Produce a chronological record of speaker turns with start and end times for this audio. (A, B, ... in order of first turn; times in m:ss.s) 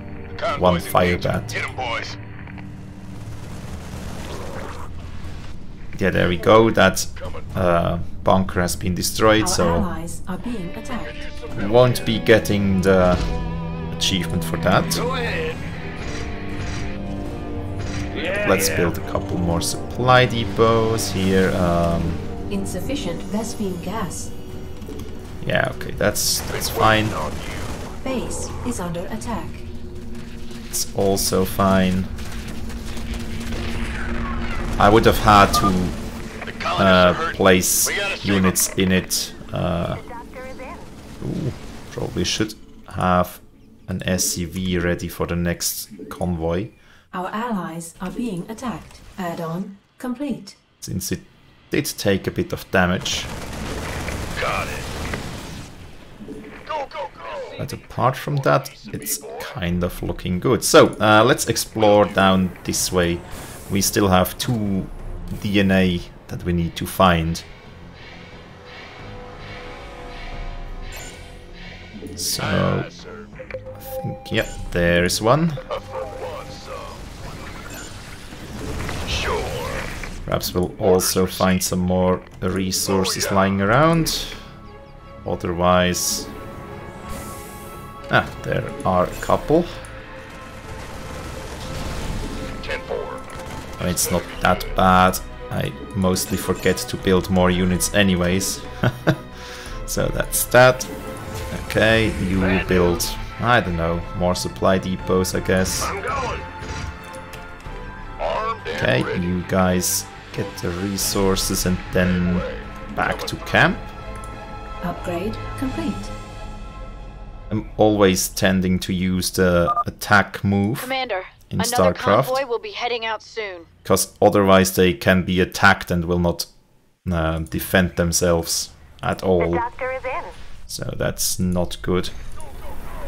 0:00.3-0:02.2 A
0:00.5-0:01.6 B
0:06.0-0:09.9 B
0:07.2-0:07.6 A
0:09.4-0:11.3 C
0:10.9-0:12.2 A
0:11.5-0:13.3 B
0:13.9-0:15.1 B
0:18.3-0:22.2 B
0:22.5-0:24.3 C
0:25.4-0:27.2 B
0:26.5-0:27.9 A
0:28.0-0:29.7 C
0:30.7-0:32.1 B
0:34.8-0:36.0 B
0:36.5-0:38.8 A
0:36.7-0:40.1 B
0:41.2-0:46.7 B
0:47.1-0:50.6 C
0:50.8-0:53.3 B
0:54.4-0:54.9 A
0:56.7-0:59.6 A
0:57.6-1:07.4 B
1:01.8-1:02.3 A
1:12.2-1:12.9 B
1:12.4-1:13.3 A
1:13.8-1:15.6 B
1:15.7-1:17.1 A
1:19.0-1:19.8 A
1:20.2-1:24.4 B
1:20.8-1:21.6 A
1:22.8-1:23.6 A
1:25.2-1:26.3 B
1:28.1-1:29.8 B
1:32.6-1:33.2 A
1:33.8-1:34.8 A
1:33.8-1:40.9 B
1:41.5-1:45.9 B
1:42.4-1:43.0 A
1:45.8-1:46.4 A
1:48.2-1:49.3 A
1:48.7-1:53.9 B
1:52.0-1:53.7 A
1:54.8-1:56.1 C
1:57.5-2:00.9 B
2:00.8-2:03.7 D
2:01.5-2:02.4 B
2:03.8-2:06.5 B
2:07.0-2:09.8 B
2:10.7-2:12.1 B